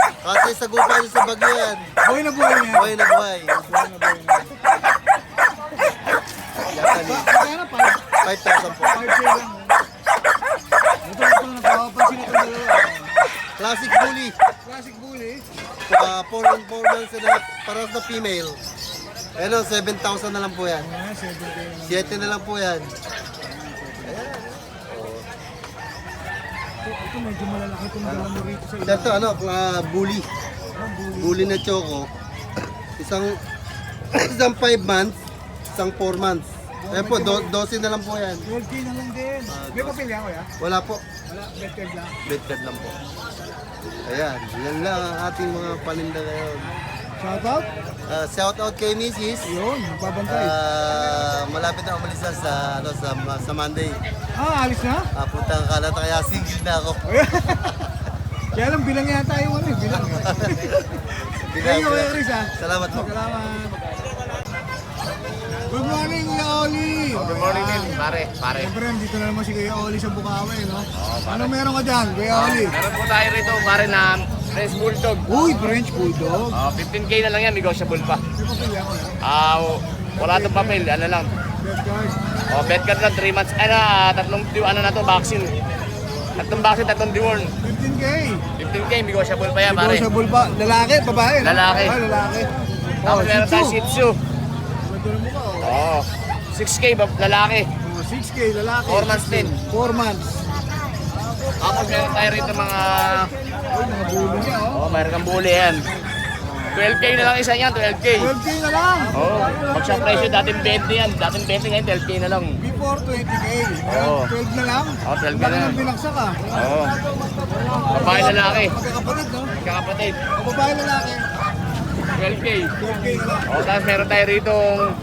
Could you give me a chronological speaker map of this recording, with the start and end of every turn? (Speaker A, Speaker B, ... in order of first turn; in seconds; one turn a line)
Speaker A: 0.2-1.9
Speaker B: 2.0-4.5
Speaker A: 2.7-3.5
Speaker A: 6.7-7.3
Speaker B: 6.9-8.0
Speaker A: 8.2-9.1
Speaker B: 8.8-9.7
Speaker B: 11.0-13.3
Speaker A: 13.6-14.3
Speaker B: 14.6-15.4
Speaker A: 15.9-18.6
Speaker A: 19.4-20.9
Speaker B: 20.8-22.3
Speaker A: 21.8-22.9
Speaker B: 23.4-24.2
Speaker A: 24.0-25.2
Speaker B: 26.8-29.3
Speaker A: 28.0-28.3
Speaker A: 28.8-30.2
Speaker B: 30.8-31.6
Speaker A: 31.2-32.1
Speaker A: 33.0-33.4
Speaker A: 34.1-35.2
Speaker A: 35.7-38.4
Speaker B: 36.8-37.5
Speaker B: 38.5-40.5
Speaker A: 39.5-40.0
Speaker A: 40.6-41.0
Speaker B: 41.3-42.1
Speaker A: 42.2-42.9
Speaker A: 44.1-46.7
Speaker B: 47.2-47.6
Speaker A: 48.1-49.5
Speaker B: 49.5-50.5
Speaker A: 50.3-54.0
Speaker B: 54.4-55.1
Speaker A: 55.1-57.0
Speaker B: 57.1-57.7
Speaker B: 58.5-61.0
Speaker A: 59.9-60.5
Speaker A: 61.5-63.1
Speaker B: 61.6-63.7
Speaker B: 65.7-68.0
Speaker C: 67.1-68.7
Speaker B: 68.5-72.8
Speaker C: 71.0-71.5
Speaker C: 72.3-75.3
Speaker B: 75.3-76.5
Speaker C: 76.5-78.2
Speaker B: 78.4-79.2
Speaker C: 79.2-81.3
Speaker B: 80.1-80.8
Speaker B: 81.6-82.2
Speaker C: 82.5-85.5
Speaker C: 86.3-87.5
Speaker B: 87.6-88.4
Speaker C: 88.6-90.0
Speaker B: 89.7-92.5
Speaker C: 91.4-92.0
Speaker B: 93.0-93.8
Speaker C: 93.0-94.1
Speaker B: 94.8-95.8
Speaker C: 95.6-97.7
Speaker B: 97.8-100.3
Speaker C: 98.9-99.5
Speaker C: 101.6-103.3
Speaker B: 103.7-105.1
Speaker C: 104.7-105.8
Speaker B: 106.4-106.8
Speaker C: 106.7-108.3
Speaker B: 108.2-110.8
Speaker C: 109.1-112.5
Speaker B: 112.6-119.5
Speaker C: 113.9-114.3
Speaker C: 115.0-115.8
Speaker C: 116.5-116.9
Speaker C: 117.9-118.8
Speaker C: 119.5-120.2
Speaker B: 120.4-121.2
Speaker C: 122.1-122.9
Speaker B: 122.8-123.6
Speaker C: 123.5-124.8